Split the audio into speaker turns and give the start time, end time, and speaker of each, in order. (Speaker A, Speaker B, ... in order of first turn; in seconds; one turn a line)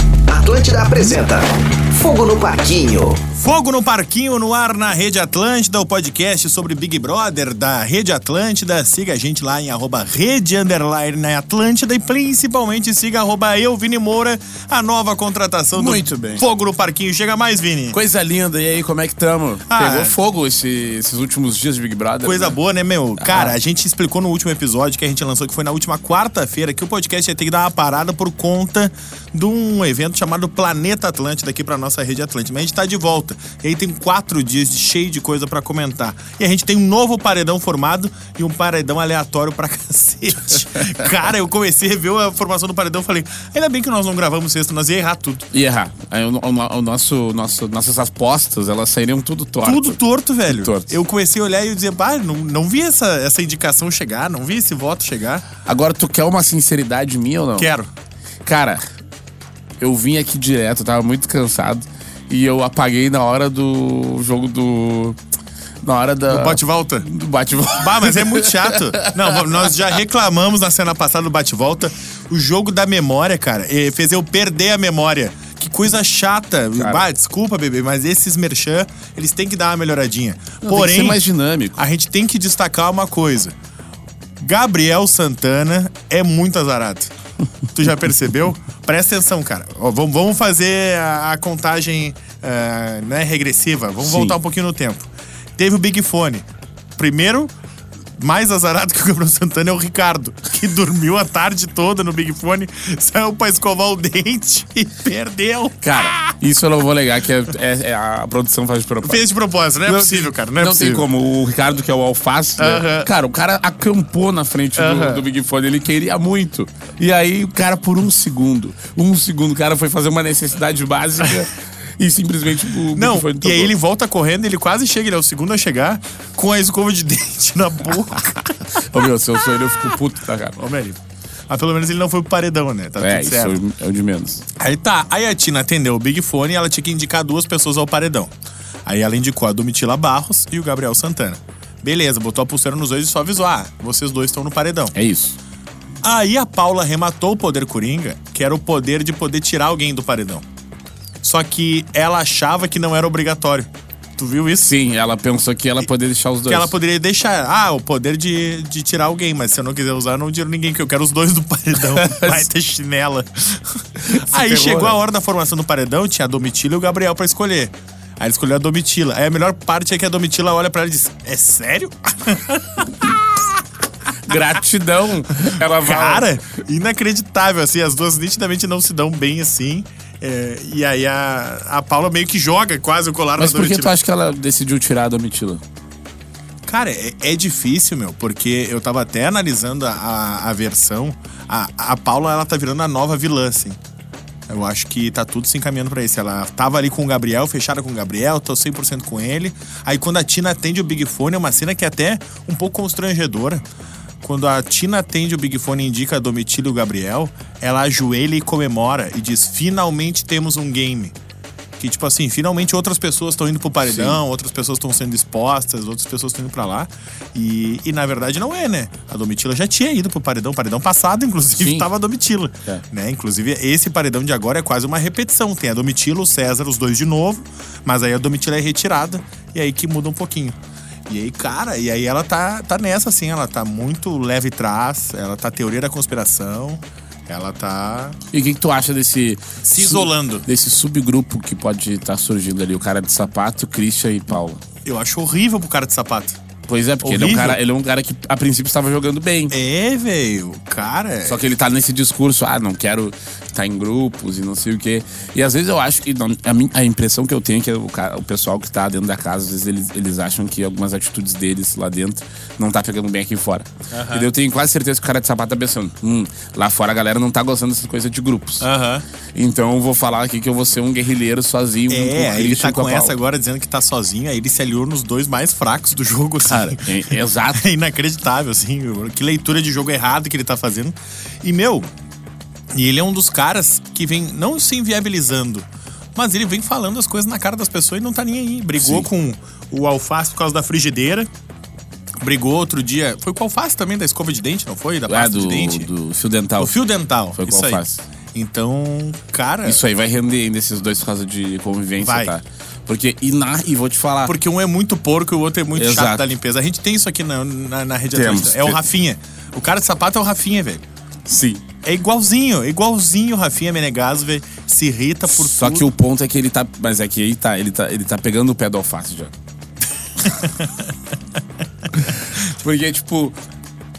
Speaker A: 0.3-3.2
Speaker B: 3.4-18.0
Speaker C: 15.7-16.5
Speaker C: 17.9-22.6
Speaker B: 19.7-20.2
Speaker B: 22.2-45.5
Speaker C: 23.2-23.6
Speaker C: 45.5-51.0
Speaker B: 49.6-55.4
Speaker C: 55.6-57.7
Speaker B: 57.6-57.9
Speaker C: 58.5-58.8
Speaker C: 59.8-65.2
Speaker C: 65.8-69.7
Speaker B: 66.3-67.1
Speaker B: 67.7-81.2
Speaker C: 76.8-77.0
Speaker C: 80.6-81.8
Speaker B: 81.8-83.5
Speaker B: 84.4-87.1
Speaker B: 87.7-96.5
Speaker C: 94.0-94.4
Speaker B: 97.0-97.5
Speaker B: 98.2-106.3
Speaker C: 105.8-109.2
Speaker B: 109.0-111.1
Speaker C: 109.8-123.7
Speaker B: 112.6-113.1
Speaker B: 114.8-115.3
Speaker B: 122.9-128.5
Speaker C: 128.7-130.6
Speaker B: 130.6-131.0
Speaker B: 131.5-133.6
Speaker C: 133.0-134.4
Speaker B: 134.6-138.3
Speaker B: 138.9-144.9
Speaker C: 144.9-145.4
Speaker B: 146.0-150.4
Speaker B: 151.2-154.8
Speaker C: 154.6-156.8
Speaker B: 156.5-173.4
Speaker C: 161.8-162.5
Speaker C: 164.0-165.0
Speaker C: 174.3-176.3
Speaker B: 175.5-184.0
Speaker C: 183.4-185.6
Speaker B: 186.7-193.8
Speaker B: 194.5-203.7
Speaker B: 204.2-211.2
Speaker B: 211.8-230.6
Speaker C: 213.8-214.2
Speaker C: 221.6-221.9
Speaker B: 231.1-238.2
Speaker C: 238.3-244.6
Speaker B: 239.6-240.5
Speaker B: 244.8-246.4
Speaker C: 246.7-249.6
Speaker B: 247.0-247.6
Speaker B: 249.5-251.5
Speaker C: 251.3-268.7
Speaker B: 263.9-264.3
Speaker B: 268.6-269.1
Speaker C: 269.3-273.2
Speaker B: 271.9-281.9
Speaker C: 276.4-277.7
Speaker B: 282.7-291.3
Speaker C: 288.8-289.1
Speaker B: 292.2-295.9
Speaker C: 295.1-298.1
Speaker B: 296.6-299.8
Speaker C: 299.6-304.4
Speaker B: 302.0-302.4
Speaker B: 304.2-310.8
Speaker C: 305.7-306.3
Speaker C: 308.1-308.8
Speaker C: 311.3-311.6
Speaker B: 311.8-316.0
Speaker C: 315.3-319.3
Speaker C: 321.9-323.4